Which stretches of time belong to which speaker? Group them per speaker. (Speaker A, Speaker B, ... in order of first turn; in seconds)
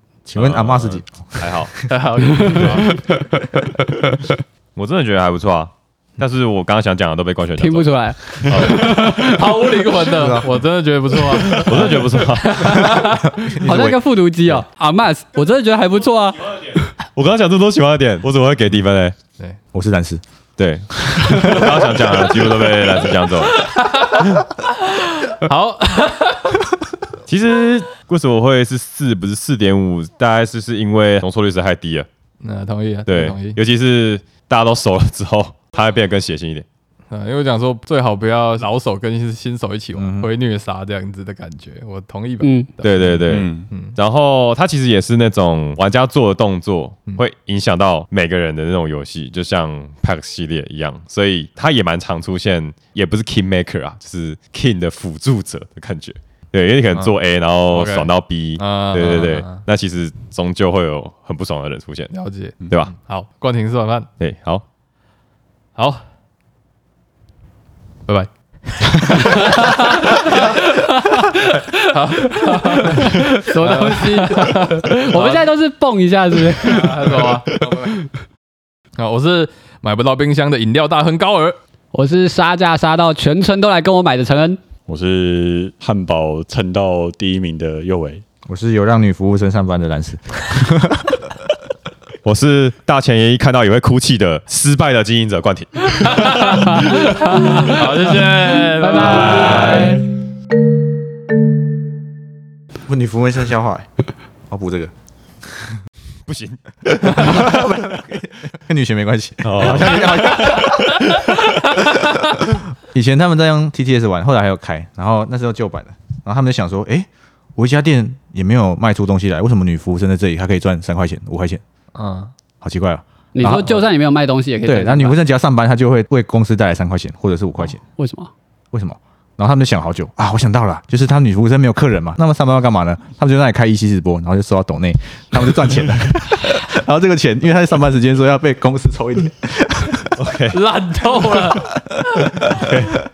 Speaker A: 0.3-1.7, 10.1-10.5, 12.6-14.7, 19.7-20.2, 21.2-22.0, 40.0-40.3, 88.5-91.3, 102.9-103.9, 104.5-104.9, 105.5-105.7, 107.0-111.0, 112.4-121.6, 122.6-123.8, 124.7-127.8, 128.7-140.1
Speaker B: 0.4-1.8, 2.5-2.8, 4.8-9.0, 11.5-13.0, 17.1-19.2, 20.6-23.7, 27.3-32.1, 33.1-36.6, 42.8-62.1, 62.6-63.0, 64.2-64.6, 92.2-96.8, 106.3-107.8, 109.4-110.8, 140.2-140.6, 142.5-142.9
Speaker C: 1.7-3.1, 9.1-13.3, 23.5-26.7, 32.4-33.6, 37.1-44.0, 57.7-59.7, 62.1-64.1, 65.8-66.0, 68.1-75.5, 76.6-77.9, 79.0-81.6, 96.0-100.0, 122.0-122.3, 140.5-141.7
Speaker D: 7.6-9.7, 13.4-16.9, 42.4-42.7, 69.3-69.7, 72.3-77.2, 81.9-84.6, 96.5-97.8, 98.7-100.0, 123.3-125.2, 128.0-128.3
Speaker E: 43.3-43.7, 84.9-88.2